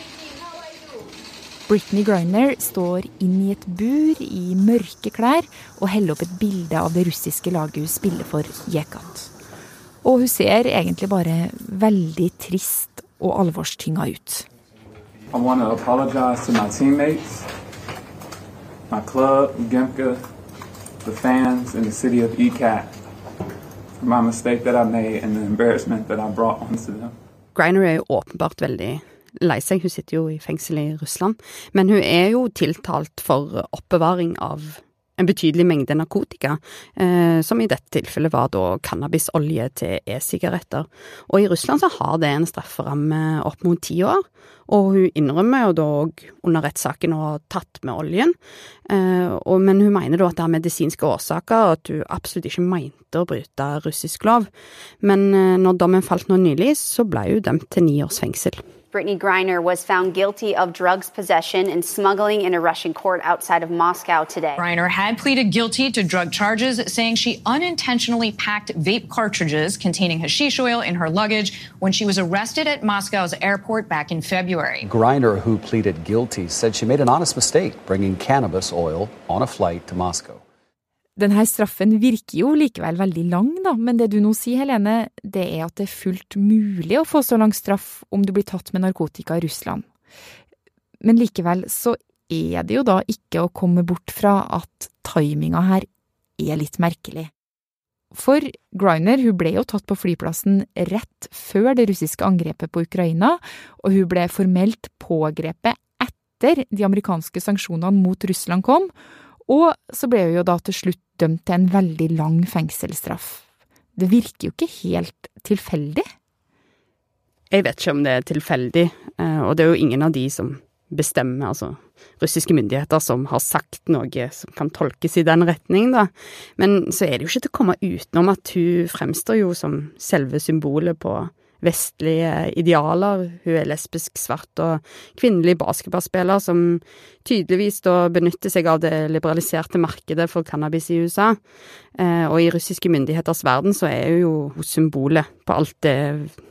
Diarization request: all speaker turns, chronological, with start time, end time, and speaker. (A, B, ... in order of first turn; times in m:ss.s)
0:01.7-0:09.3 A
0:10.0-0:14.4 A
0:15.3-0:17.4 B
0:18.9-0:20.2 B
0:21.0-0:22.9 B
0:24.0-0:27.1 B
0:27.5-0:48.3 C
0:48.9-0:54.5 C
0:55.0-0:58.6 C
0:58.9-1:04.6 D
1:04.6-1:14.9 E
1:14.8-1:20.4 F
1:21.2-1:29.8 A
1:31.0-1:35.9 A
1:36.4-1:37.3 A
1:38.1-1:48.9 A
1:49.5-1:53.4 A
1:54.0-1:56.0 A
1:57.5-2:21.4 C
2:22.0-2:26.4 C